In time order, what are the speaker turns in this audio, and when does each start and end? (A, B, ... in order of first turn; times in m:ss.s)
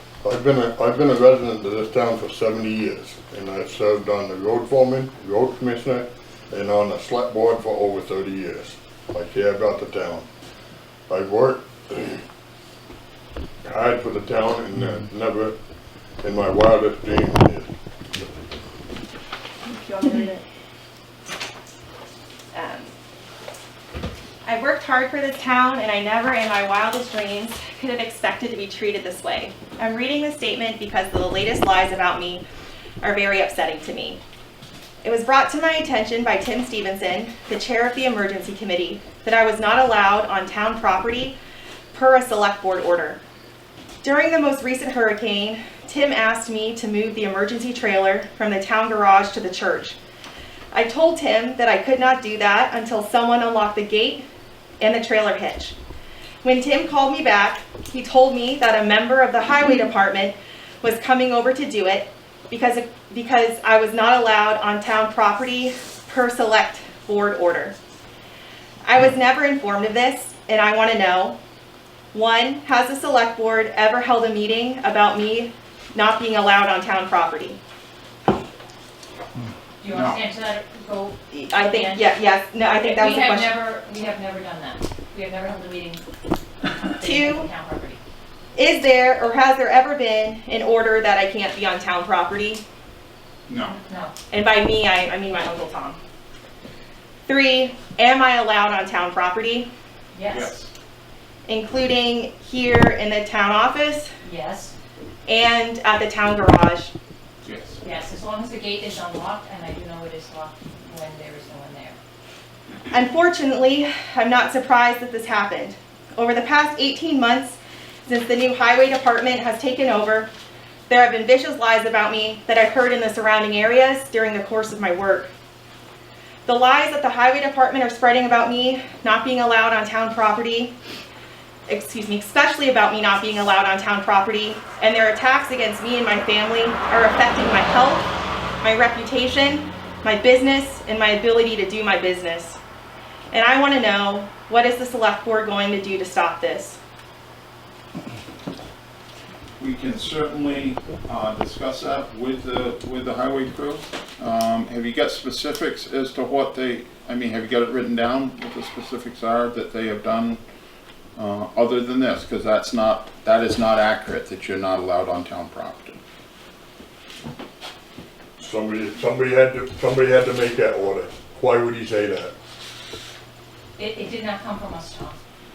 0:00.2-0:10.2 A
0:11.1-0:12.2 A
0:13.6-0:15.6 A
0:16.2-0:17.7 A
0:19.7-0:20.4 B
0:22.5-0:22.9 B
0:24.4-0:32.4 B
0:33.0-0:34.2 B
0:35.0-0:41.4 B
0:41.9-0:43.2 B
0:44.0-0:50.0 B
0:50.7-0:54.2 B
0:54.8-0:55.7 B
0:56.4-1:07.7 B
1:08.8-1:11.4 B
1:12.1-1:17.6 B
1:19.8-1:22.1 C
1:19.9-1:20.2 D
1:21.3-1:23.6 B
1:22.7-1:26.0 C
1:26.6-1:28.0 C
1:27.0-1:27.5 B
1:28.5-1:32.6 B
1:33.5-1:33.8 D
1:33.7-1:34.1 C
1:34.3-1:36.0 B
1:37.3-1:39.7 B
1:40.1-1:40.5 C
1:40.2-1:40.7 D
1:41.4-1:44.1 B
1:44.2-1:44.7 C
1:45.3-1:46.9 B
1:47.4-1:47.8 D
1:47.8-1:52.0 C
1:52.9-2:00.3 B
2:00.9-2:05.3 B
2:06.4-2:10.7 B
2:11.7-2:18.1 B
2:18.6-2:22.6 B
2:23.3-2:26.8 B
2:29.6-2:40.4 D
2:41.2-2:46.0 D
2:48.4-2:52.3 A
2:53.8-2:55.2 C